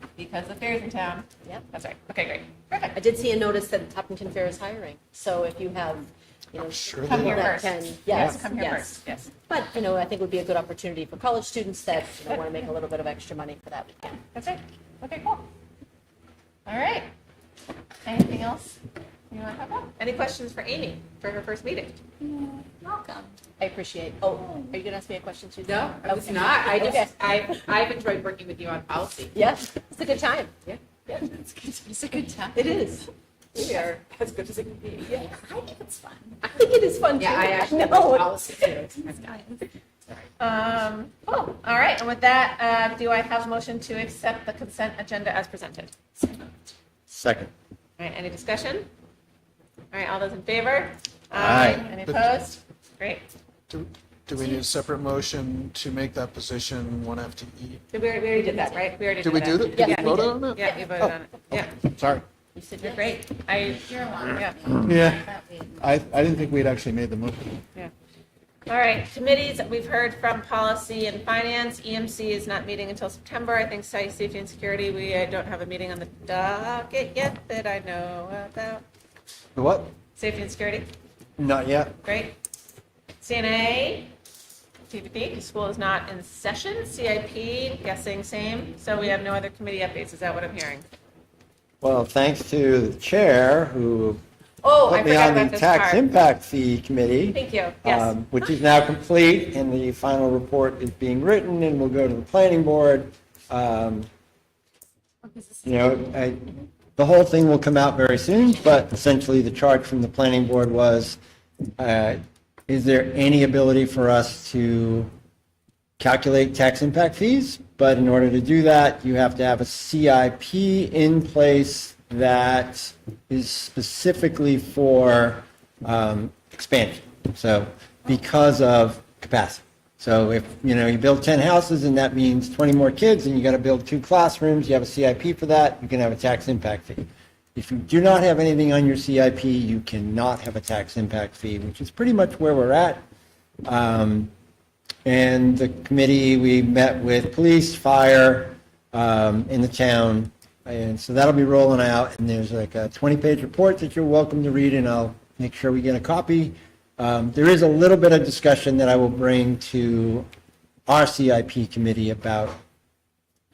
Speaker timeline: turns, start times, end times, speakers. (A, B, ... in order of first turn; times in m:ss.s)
0:00.2-0:02.9 A
0:02.9-0:14.2 B
0:06.8-0:07.5 C
0:07.0-0:09.3 A
0:14.3-0:15.5 A
0:16.7-0:17.1 A
0:18.0-0:18.8 A
0:19.3-0:22.0 A
0:22.8-0:23.2 D
0:23.6-0:27.5 B
0:25.6-0:29.3 E
0:29.3-0:30.5 B
0:31.4-0:32.4 A
0:32.5-0:33.9 B
0:33.6-0:35.2 E
0:35.0-0:35.3 B
0:35.6-0:36.2 A
0:36.4-0:38.7 B
0:37.2-0:39.0 E
0:39.0-0:39.4 A
0:40.4-0:46.4 A
0:47.1-0:47.5 F
0:48.0-0:48.9 A
0:49.9-0:53.3 A
0:51.3-0:51.9 F
0:51.4-0:52.3 C
0:53.7-0:57.8 C
0:57.9-1:01.7 A
0:59.2-1:02.2 C
0:59.7-1:00.5 B
1:02.5-1:03.2 B
1:02.8-1:04.8 A
1:04.2-1:05.8 D
1:04.8-1:07.6 C
1:08.7-1:18.8 A
1:19.6-1:19.9 F
1:20.2-1:20.9 A
1:21.4-1:22.0 F
1:22.0-1:22.4 A
1:23.2-1:24.1 A
1:24.9-1:30.8 A
1:31.8-1:34.2 F
1:34.6-1:36.0 A
1:34.9-1:44.1 F
1:37.3-1:38.2 A
1:45.6-1:51.2 F
1:51.8-1:55.1 F
1:56.0-2:23.0 F
2:23.6-2:24.3 F
2:25.0-2:40.2 F
2:40.9-2:42.6 F